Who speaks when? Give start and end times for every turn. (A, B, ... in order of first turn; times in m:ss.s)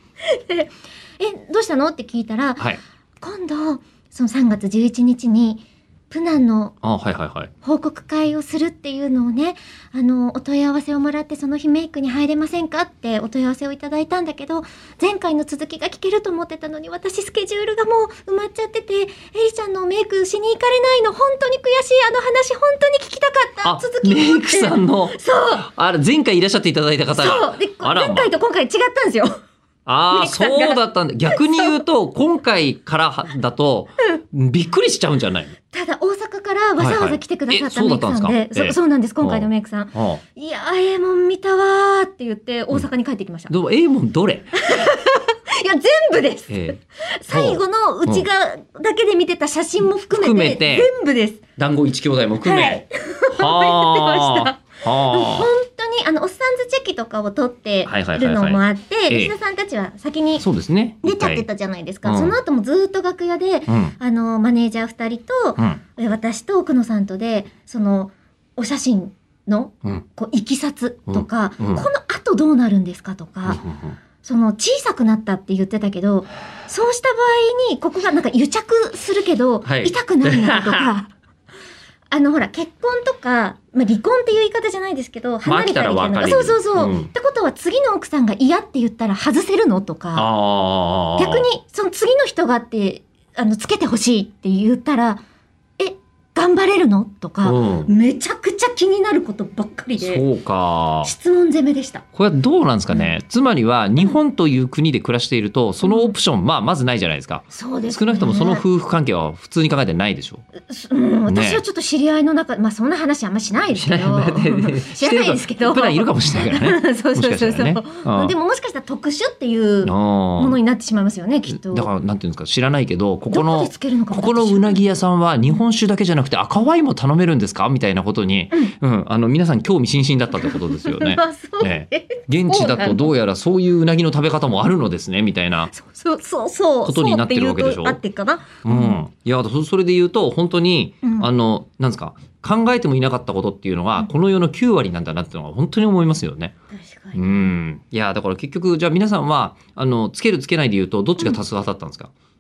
0:00.2-0:02.7 A
0:03.2-0:06.8 A
0:06.8-0:07.5 B
0:07.6-0:25.7 A
0:23.6-0:28.3 B
0:27.2-0:29.4 A
0:29.9-0:35.6 B
0:30.1-0:31.7 A
0:35.7-0:43.5 A
0:36.8-0:40.2 B
0:43.5-0:44.6 B
0:44.6-0:51.4 A
0:46.5-0:46.8 B
0:47.3-0:48.3 B
0:50.1-0:50.9 B
0:51.6-0:55.5 B
0:52.4-1:00.4 A
0:57.9-0:59.3 B
1:00.4-1:01.4 B
1:01.0-1:13.6 A
1:02.0-1:02.4 B
1:03.7-1:04.0 B
1:11.1-1:11.9 B
1:13.5-1:14.0 B
1:14.2-1:21.1 A
1:19.6-1:20.9 B
1:22.1-1:30.3 A
1:25.4-1:27.1 B
1:30.1-1:31.5 B
1:31.2-1:35.2 A
1:35.8-1:40.2 A
1:37.4-1:37.9 B
1:40.0-1:41.1 B
1:41.0-1:42.0 A
1:42.1-1:50.4 B
1:45.8-1:46.1 A
1:47.5-1:48.6 A
1:50.7-2:01.9 A
1:51.3-1:51.6 B
1:53.7-1:58.3 B
1:59.8-2:00.6 B
2:01.5-2:15.7 B
2:03.3-2:04.8 A
2:10.4-2:13.1 A
2:15.7-2:19.0 A
2:16.8-2:18.0 B
2:18.6-2:26.5 B
2:21.0-2:21.3 A
2:26.7-2:27.2 A
2:27.1-2:32.1 B